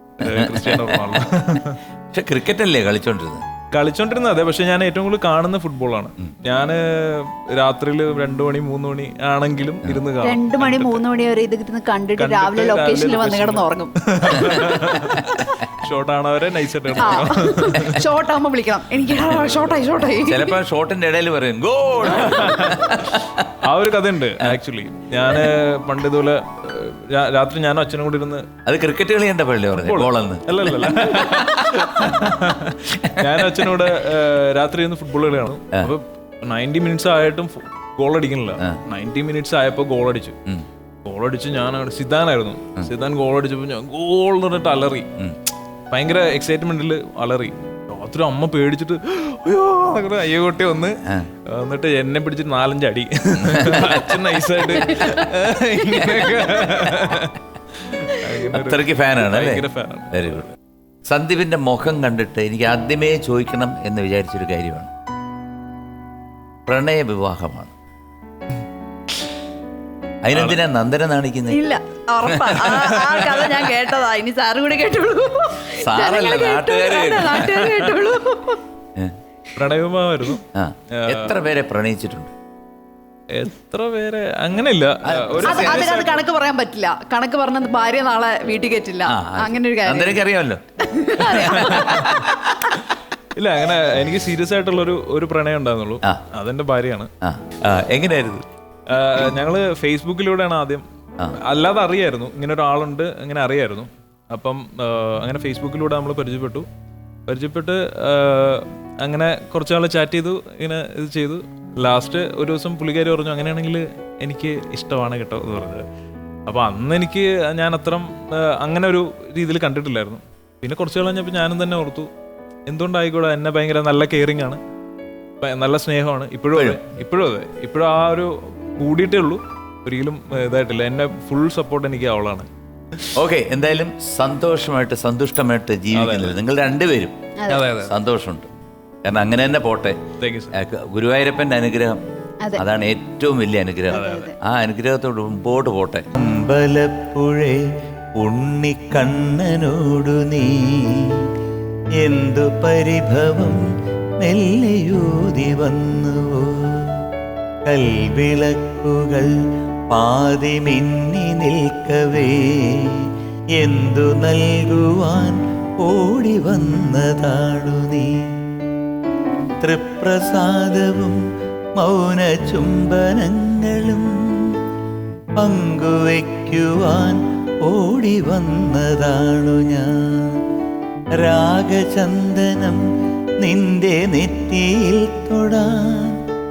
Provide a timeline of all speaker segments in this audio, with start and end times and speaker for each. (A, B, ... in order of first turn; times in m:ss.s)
0:00.2-0:01.8 A
0:00.2-0:01.3 B
0:02.1-0:03.4 B
0:03.7-0:11.0 A
0:10.2-0:15.0 C
0:12.2-0:18.0 A
0:14.4-0:15.4 B
0:17.0-0:20.6 C
0:19.3-0:19.8 A
0:20.2-0:23.5 B
0:22.1-0:22.8 A
0:22.2-0:22.6 C
0:23.6-0:28.5 A
0:28.6-0:32.4 B
0:29.8-0:40.4 A
0:33.0-0:33.8 B
0:41.0-0:45.1 A
0:45.9-1:00.5 A
0:53.4-0:54.2 B
0:55.9-0:56.8 B
0:58.4-1:00.5 B
1:01.0-1:04.9 B
1:06.6-1:07.7 B
1:10.2-1:11.6 B
1:11.5-1:18.6 C
1:12.2-1:13.2 B
1:15.8-1:17.6 B
1:17.4-1:18.0 A
1:19.5-1:21.4 A
1:20.5-1:22.3 B
1:23.3-1:26.2 A
1:25.0-1:26.0 B
1:25.4-1:30.2 C
1:29.1-1:30.6 B
1:30.8-1:32.8 C
1:31.2-1:32.2 B
1:31.6-1:32.2 A
1:33.3-1:37.1 A
1:37.2-1:38.4 B
1:38.9-1:40.8 A
1:41.4-1:46.7 A
1:47.3-1:55.8 A
1:56.5-2:02.1 A
2:02.6-2:04.6 A
2:05.4-2:13.1 A
2:06.5-2:06.8 B
2:13.1-2:17.2 B
2:15.9-2:16.4 A
2:17.4-2:17.7 C
2:17.5-2:17.9 A
2:17.8-2:18.5 B
2:19.0-2:20.0 B
2:20.2-2:20.5 A
2:20.5-2:22.0 B
2:22.6-2:31.2 B
2:23.9-2:24.4 C
2:23.9-2:24.2 A
2:32.0-2:33.7 B
2:34.2-2:37.0 B
2:37.6-2:39.3 B
2:39.9-2:48.3 B
2:49.6-2:51.2 B
2:51.8-2:54.5 B
2:55.4-3:00.4 B
3:01.2-3:02.8 B
3:03.4-3:06.2 B